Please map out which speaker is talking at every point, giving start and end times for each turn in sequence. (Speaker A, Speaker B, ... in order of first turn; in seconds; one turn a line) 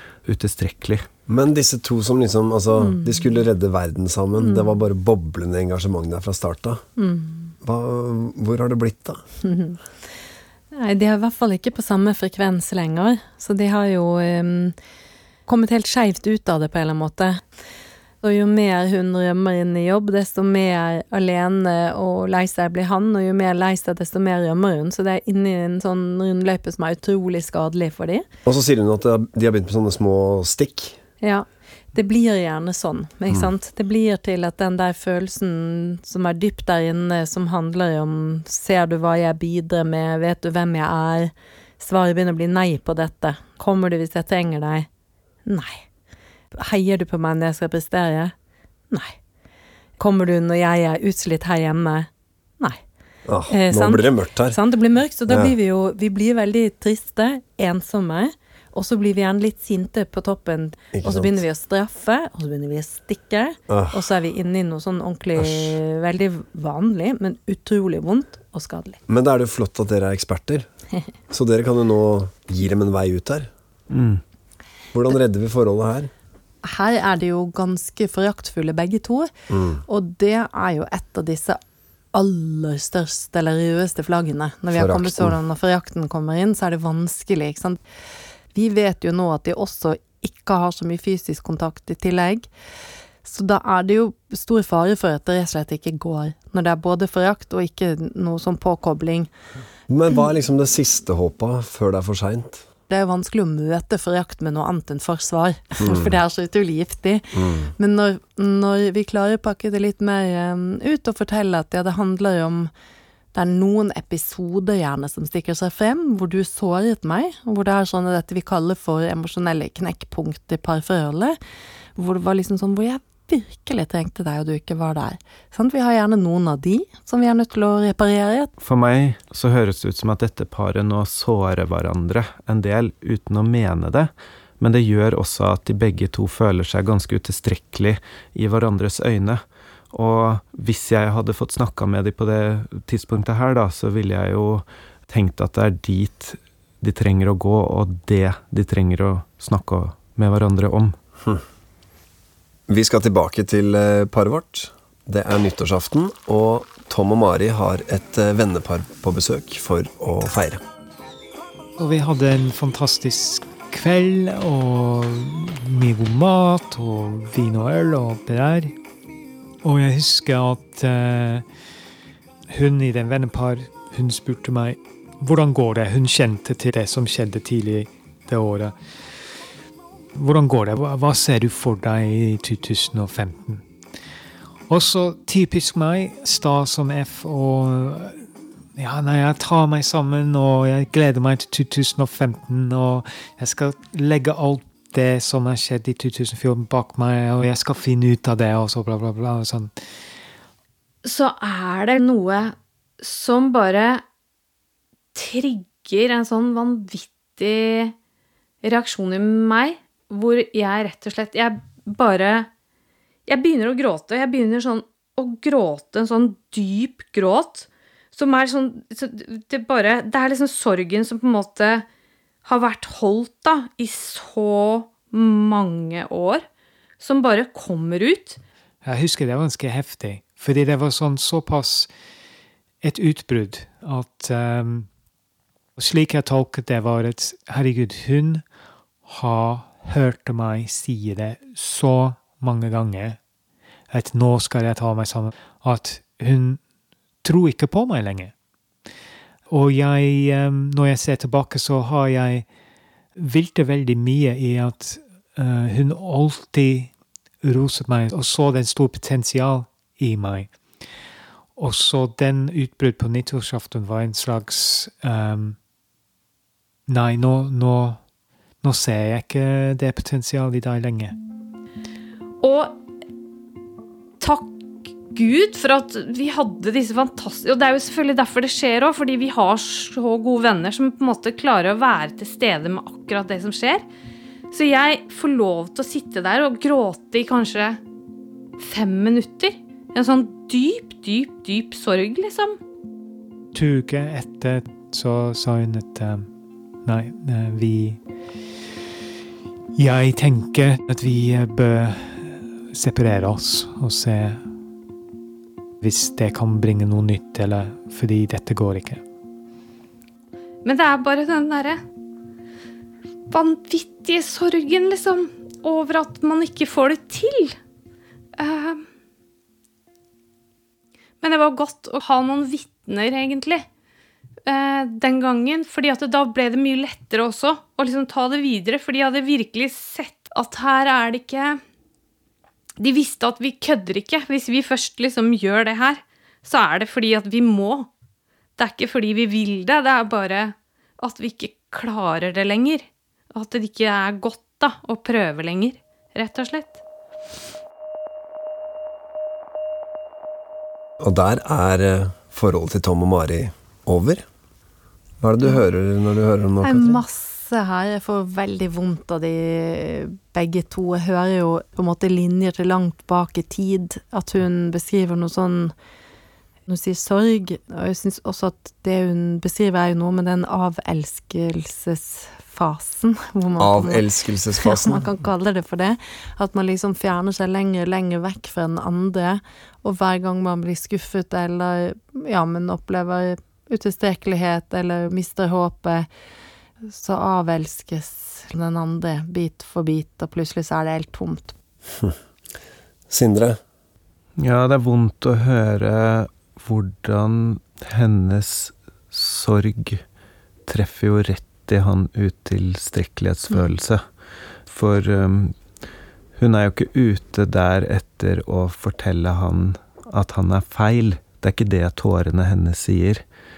Speaker A: 0.2-1.1
Speaker B: 1.3-6.8
Speaker C: 2.8-3.2
Speaker C: 4.4-4.8
Speaker C: 7.0-7.5
Speaker B: 7.6-9.2
Speaker C: 9.4-9.8
Speaker C: 10.7-14.8
Speaker C: 15.5-17.4
Speaker C: 18.2-28.2
Speaker B: 28.4-31.0
Speaker C: 31.2-44.9
Speaker C: 45.5-45.8
Speaker C: 46.5-48.3
Speaker C: 48.9-49.2
Speaker C: 50.0-52.1
Speaker B: 53.3-54.6
Speaker C: 53.5-69.0
Speaker B: 55.3-55.5
Speaker B: 60.9-61.4
Speaker B: 63.7-64.1
Speaker B: 65.4-65.8
Speaker B: 69.1-70.7
Speaker B: 71.3-73.5
Speaker A: 73.9-74.2
Speaker B: 74.9-76.1
Speaker C: 76.6-79.3
Speaker B: 79.5-79.8
Speaker C: 79.9-81.6
Speaker C: 82.1-87.8
Speaker B: 84.7-85.4
Speaker C: 88.5-92.5
Speaker C: 93.2-99.3
Speaker B: 99.9-102.7
Speaker C: 102.9-112.7
Speaker B: 105.8-106.2
Speaker B: 107.3-107.7
Speaker C: 113.3-121.4
Speaker C: 122.0-128.5
Speaker A: 128.6-150.9
Speaker B: 152.7-160.6
Speaker D: 161.8-168.7
Speaker D: 169.6-171.4
Speaker D: 172.5-178.8
Speaker D: 180.2-183.6
Speaker D: 184.7-199.7
Speaker E: 201.0-204.0
Speaker E: 205.2-207.9
Speaker E: 208.6-212.5
Speaker E: 213.3-221.9
Speaker E: 222.4-226.4
Speaker E: 227.0-228.4
Speaker D: 228.8-231.9
Speaker D: 232.8-234.9
Speaker D: 235.8-238.4
Speaker D: 239.1-243.2
Speaker D: 243.9-246.6
Speaker D: 247.2-248.3
Speaker D: 249.5-252.5
Speaker D: 253.2-256.9
Speaker D: 257.4-260.5
Speaker D: 261.6-265.6
Speaker D: 266.9-268.0
Speaker D: 268.6-271.1
Speaker E: 272.4-272.8
Speaker E: 274.2-283.9
Speaker E: 284.5-287.8
Speaker E: 288.6-292.6
Speaker D: 293.5-296.3
Speaker D: 296.9-298.0
Speaker D: 299.8-304.4
Speaker D: 305.8-309.0
Speaker E: 310.6-311.8
Speaker E: 313.3-317.6
Speaker E: 318.4-318.8
Speaker E: 321.2-323.6
Speaker E: 324.5-331.6
Speaker E: 332.8-337.9
Speaker E: 338.6-346.8
Speaker B: 351.0-354.2
Speaker B: 355.2-357.0
Speaker C: 356.6-365.7
Speaker C: 366.7-374.1
Speaker B: 373.6-375.1
Speaker C: 374.6-386.1
Speaker C: 386.9-391.6
Speaker B: 393.1-393.6
Speaker A: 394.4-400.0
Speaker A: 400.7-404.0
Speaker A: 404.7-405.5
Speaker A: 406.4-413.2